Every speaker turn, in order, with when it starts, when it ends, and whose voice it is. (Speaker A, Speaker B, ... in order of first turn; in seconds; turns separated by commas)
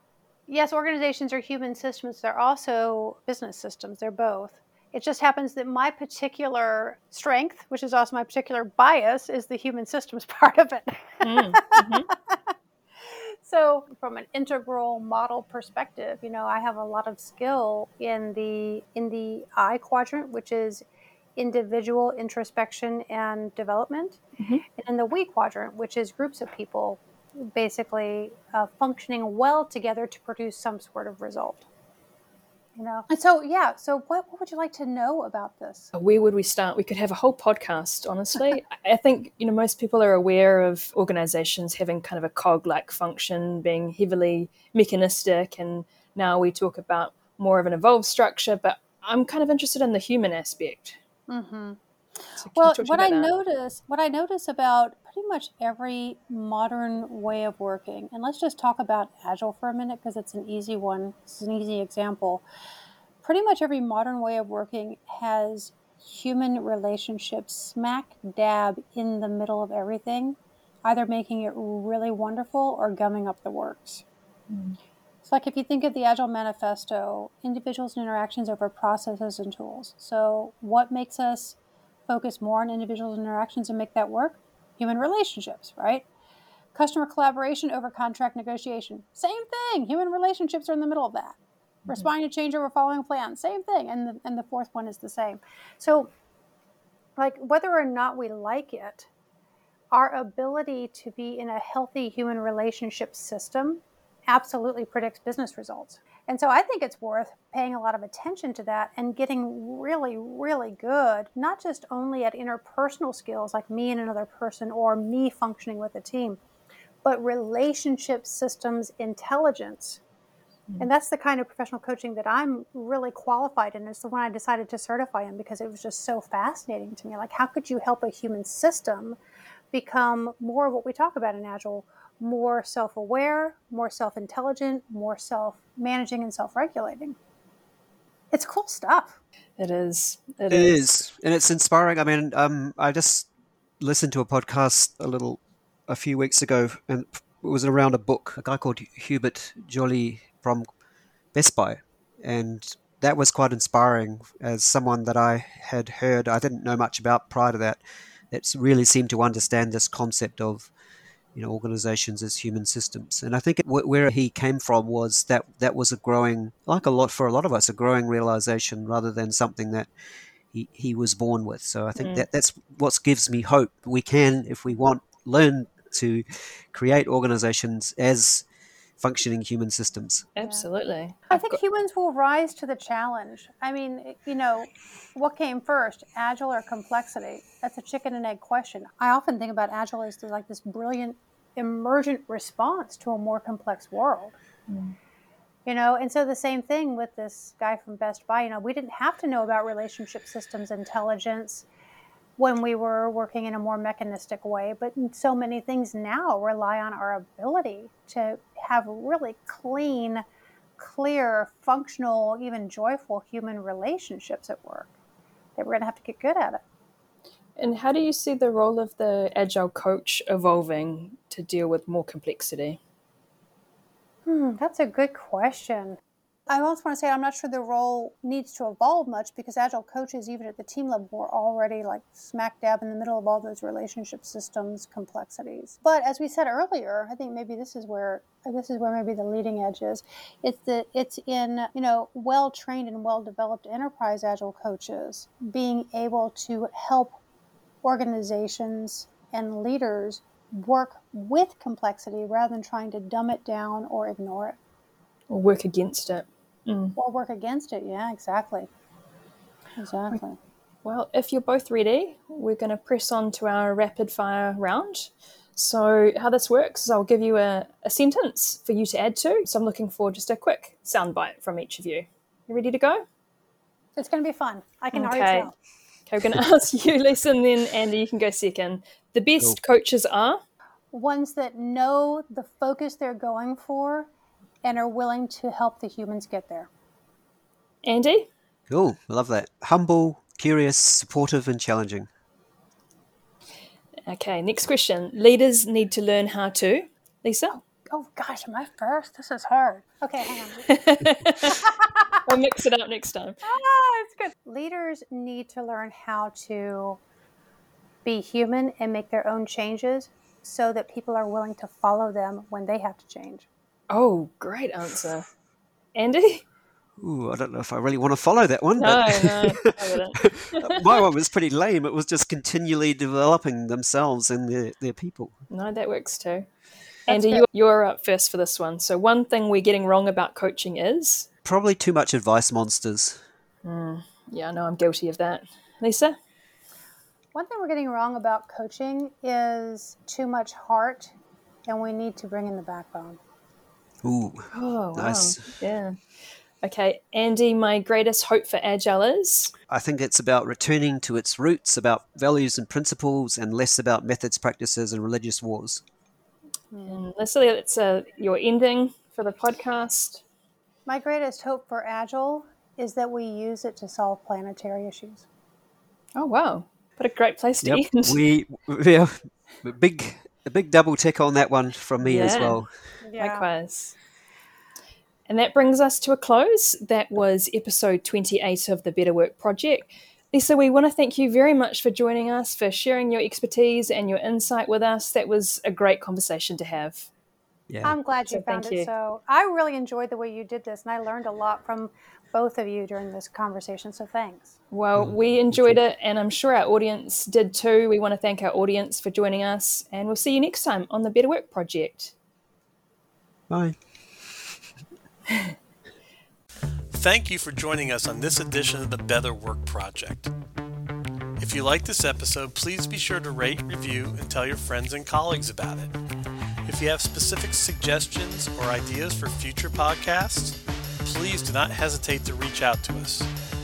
Speaker A: 0.5-12.5, Speaker B: 11.2-12.1, Speaker A: 13.0-20.8, Speaker A: 21.4-24.2, Speaker B: 24.4-24.6, Speaker A: 24.8-31.7, Speaker A: 32.8-35.9, Speaker B: 35.9-51.0, Speaker A: 51.3-51.8, Speaker B: 52.4-53.3, Speaker A: 52.5-62.4, Speaker A: 63.2-74.0, Speaker B: 74.5-74.8, Speaker A: 75.2-81.5, Speaker A: 82.1-86.0, Speaker A: 86.7-91.4, Speaker A: 91.9-96.1, Speaker A: 97.2-99.1, Speaker A: 99.9-116.4, Speaker A: 117.0-120.0, Speaker A: 120.8-129.2, Speaker A: 129.7-137.2, Speaker A: 138.3-139.2, Speaker B: 139.6-141.0, Speaker C: 140.5-143.3, Speaker C: 143.8-150.7, Speaker C: 151.3-157.8, Speaker C: 158.3-160.7, Speaker C: 161.3-169.9, Speaker C: 170.5-178.4, Speaker B: 171.9-172.2, Speaker C: 179.0-180.3, Speaker B: 180.4-181.6, Speaker A: 180.4-180.7, Speaker A: 181.3-194.4, Speaker B: 194.7-194.9, Speaker A: 195.7-201.6, Speaker A: 202.4-210.2, Speaker A: 210.8-214.9, Speaker A: 215.6-216.6, Speaker B: 217.6-222.8, Speaker A: 224.3-226.0, Speaker A: 226.5-247.2, Speaker A: 247.8-254.6, Speaker B: 255.3-256.9, Speaker A: 256.9-258.7, Speaker A: 259.8-260.4, Speaker B: 260.8-273.0, Speaker A: 273.9-275.5, Speaker B: 274.9-275.5, Speaker B: 276.1-280.4, Speaker A: 280.9-284.1, Speaker A: 284.6-286.7, Speaker B: 287.8-288.3, Speaker C: 288.7-292.1, Speaker B: 294.1-297.6, Speaker A: 297.8-300.7, Speaker B: 300.7-303.4, Speaker A: 303.4-307.0, Speaker A: 308.1-313.4, Speaker B: 313.9-315.3, Speaker B: 315.9-316.4, Speaker C: 317.0-325.3, Speaker B: 318.8-321.0, Speaker B: 325.5-326.5, Speaker A: 327.1-327.4, Speaker B: 327.1-331.3, Speaker C: 331.4-333.2, Speaker B: 333.6-336.2, Speaker A: 337.3-341.1, Speaker A: 341.7-343.2, Speaker C: 344.0-345.4, Speaker B: 344.5-349.5, Speaker C: 349.7-355.8, Speaker A: 356.7-357.0, Speaker B: 356.8-360.2, Speaker A: 360.9-365.2, Speaker B: 366.2-368.2, Speaker C: 367.6-372.8, Speaker B: 372.0-372.6, Speaker A: 373.0-373.4, Speaker B: 373.2-373.9, Speaker B: 375.3-387.1, Speaker C: 387.7-387.9, Speaker A: 387.8-394.5, Speaker B: 388.3-388.9, Speaker B: 394.7-402.1, Speaker C: 394.9-395.8, Speaker C: 403.5-404.4, Speaker D: 406.9-410.3, Speaker D: 411.4-415.9, Speaker D: 416.6-423.3